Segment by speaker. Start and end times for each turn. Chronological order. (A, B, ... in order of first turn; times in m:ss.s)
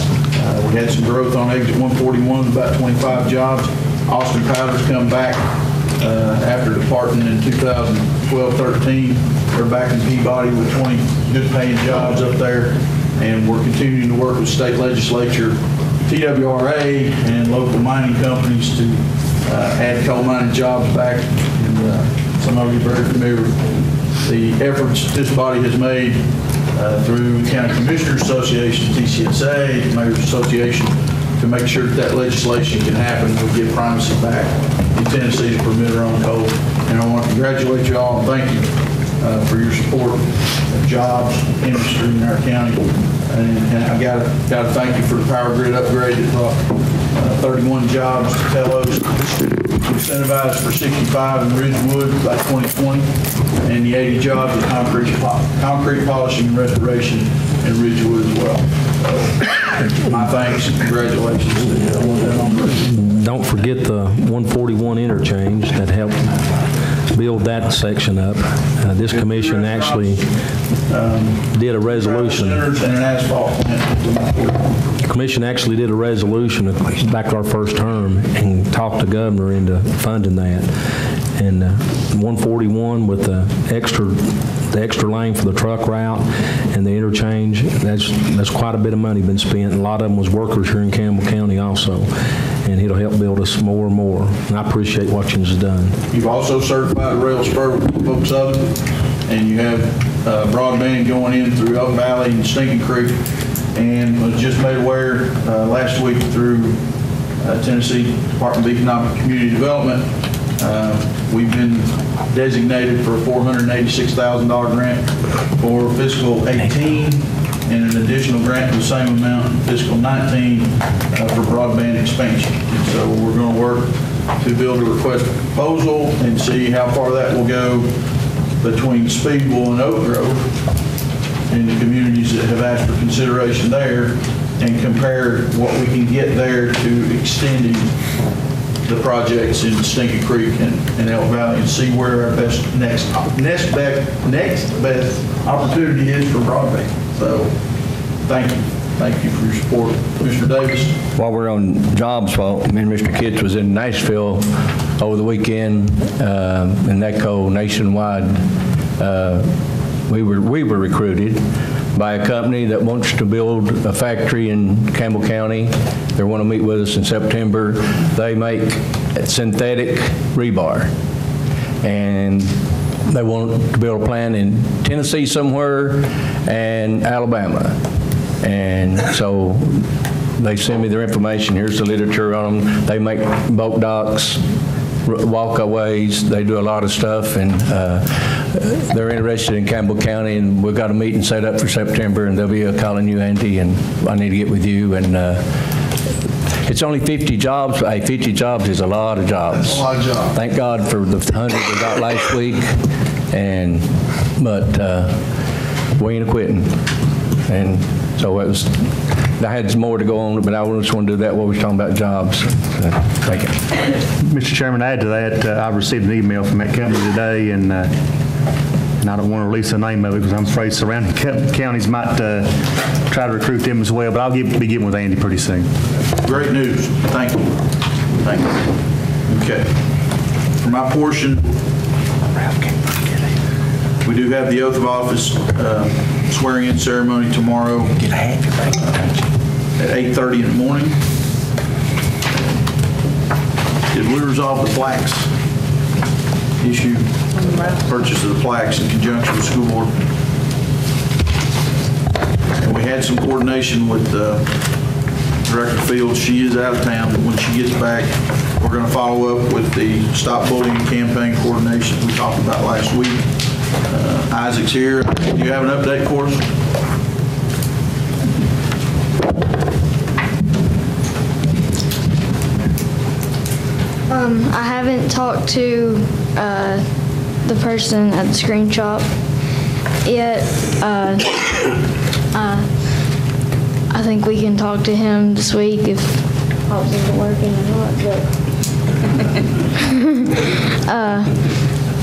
0:00.3-0:23.6 A
0:24.2-0:53.1 A
0:53.6-1:02.9 A
1:02.9-1:06.4 B
1:07.1-1:10.2 B
1:09.1-1:10.2 A
1:10.9-1:14.6 A
1:11.5-1:12.6 B
1:15.0-1:32.1 B
1:32.6-1:36.0 B
1:36.1-1:43.2 A
1:43.7-1:46.8 A
1:47.4-2:07.9 A
2:08.6-2:10.4 A
2:11.5-2:17.9 A
2:18.8-2:27.5 A
2:28.2-2:31.0 A
2:31.2-2:38.4 C
2:39.0-2:39.5 C
2:40.1-2:41.4 C
2:41.9-2:50.9 C
2:51.8-2:52.5 C
2:53.0-2:57.8 C
2:58.4-3:04.4 C
3:05.0-3:15.5 C
3:16.6-3:22.7 C
3:19.4-3:20.4 A
3:23.3-3:25.2 C
3:26.0-3:26.8 C
3:27.4-3:33.6 C
3:34.2-3:37.9 D
3:39.0-3:45.8 D
3:46.2-3:47.6 A
3:48.1-3:48.7 A
3:49.2-3:49.8 A
3:50.6-3:51.5 A
3:54.0-3:58.0 A
3:58.7-3:59.0 A
3:59.8-4:00.9 A
4:03.9-4:05.3 A
4:06.6-4:09.9 A
4:12.6-4:14.8 A
4:15.4-4:26.4 A
4:34.1-4:36.8 E
4:37.4-4:39.1 E
4:40.0-4:41.4 E
4:42.3-4:42.6 E
4:43.9-4:48.2 E
4:50.9-4:51.4 E